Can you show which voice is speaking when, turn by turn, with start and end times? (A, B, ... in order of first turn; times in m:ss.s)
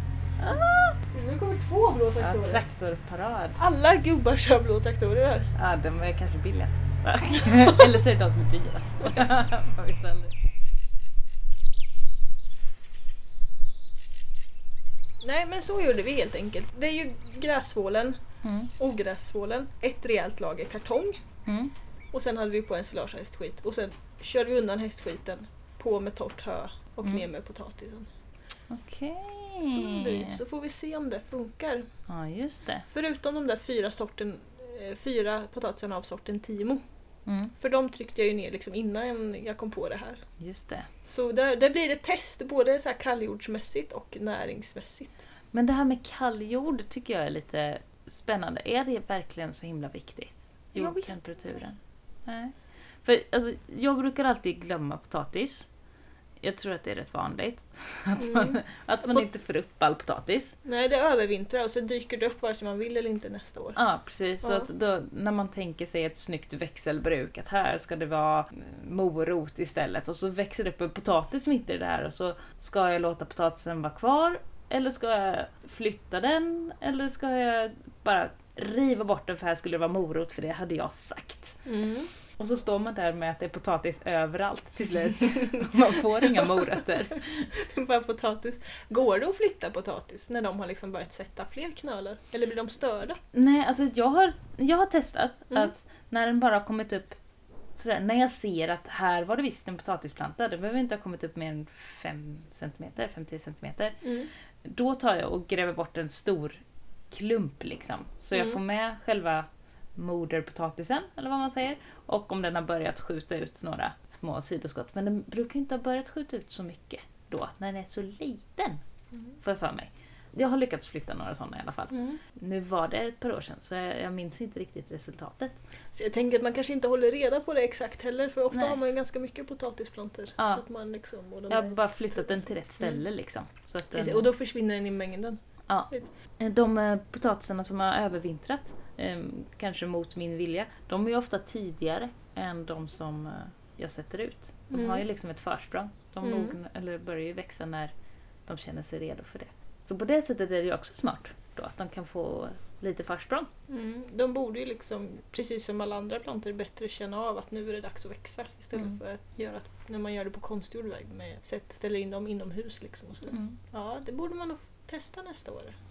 0:00.4-0:01.0 A
0:01.1-0:02.6 B
0:02.2-0:03.6 A
0:03.6-0:05.5 B
0:05.6-0:10.4 A
0:07.4-0:08.0 B
0:15.2-0:18.2 B
0:18.4-0:18.7 A
0:18.8-0:21.2 B
0:21.5-0:21.7 A
0:22.1-0:28.1 B
0:28.7-0:30.4 A
0:29.6-0:31.9 B
0:32.1-0:32.9 A
0:32.9-0:36.8 B
0:37.3-0:37.5 A
0:37.5-0:40.2 B
0:40.4-0:40.9 A
0:41.1-0:45.2 B
0:45.5-0:55.7 A
0:50.8-0:51.2 B
0:56.4-1:00.6 A
0:58.2-0:59.2 B
1:00.6-1:03.8 B
1:03.8-1:21.6 A
1:04.4-1:04.7 B
1:21.7-1:22.1 B
1:22.4-1:27.5 A
1:25.3-1:26.8 B
1:27.5-1:33.2 B
1:33.3-1:37.2 A
1:37.8-1:44.0 A
1:44.0-1:44.3 B
1:44.6-1:46.6 A
1:47.1-1:58.8 A
1:48.3-1:48.6 B
1:59.4-2:05.6 A
2:01.9-2:02.2 B
2:06.0-2:13.0 B
2:08.5-2:08.8 A
2:11.5-2:14.3 A
2:14.0-2:16.1 B
2:15.7-2:27.9 A
2:24.7-2:25.0 B
2:26.2-2:26.6 B
2:28.5-2:33.5 A
2:33.7-2:45.8 B